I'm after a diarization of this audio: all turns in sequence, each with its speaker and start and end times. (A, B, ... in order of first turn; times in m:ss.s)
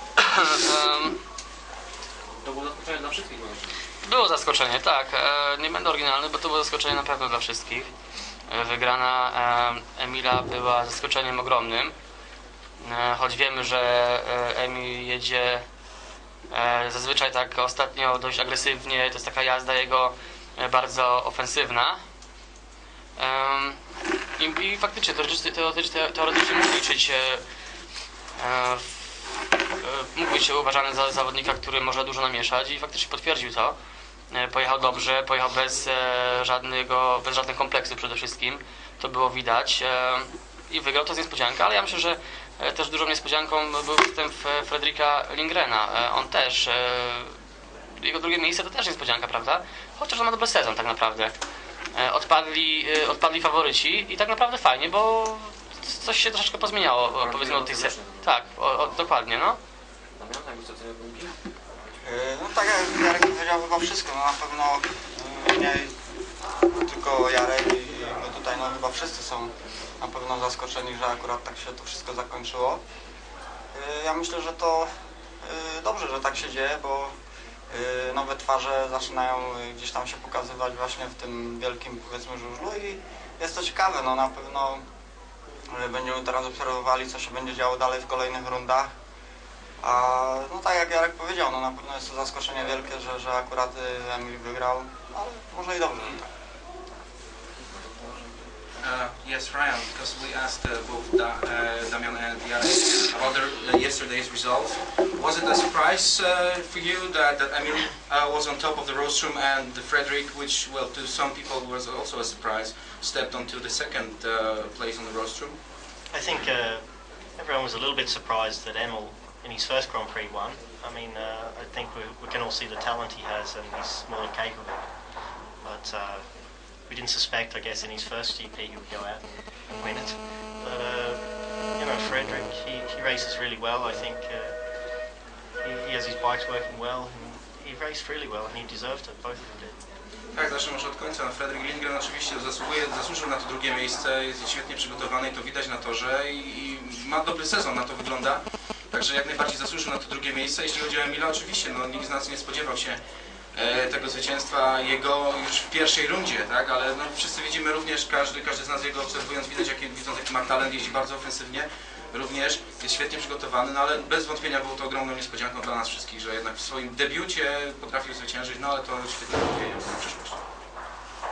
0:00.2-0:01.2 A
0:02.2-0:03.8 B
0:04.0-0:07.9 A
0:08.5-0:11.9 A
0:12.8-0:15.6 A
0:16.5-0:22.0 A
0:23.2-0:23.8 A
0:24.4-0:27.4 A
0:28.4-0:29.2 A
0:29.8-0:33.8 A
0:34.3-0:47.4 A
0:47.9-0:51.3 A
0:51.9-0:59.6 A
0:57.0-0:59.2 B
1:00.1-1:01.3 B
1:02.0-1:05.9 C
1:06.8-1:12.8 C
1:13.7-1:14.9 C
1:15.4-1:17.1 C
1:17.7-1:24.8 C
1:25.7-1:28.9 C
1:29.8-1:36.2 C
1:35.9-1:36.2 B
1:37.5-1:38.5 B
1:38.8-1:55.6 D
1:56.1-2:05.0 E
2:05.6-2:14.6 E
2:15.6-2:19.8 E
2:20.3-2:33.0 D
2:33.5-2:50.4 D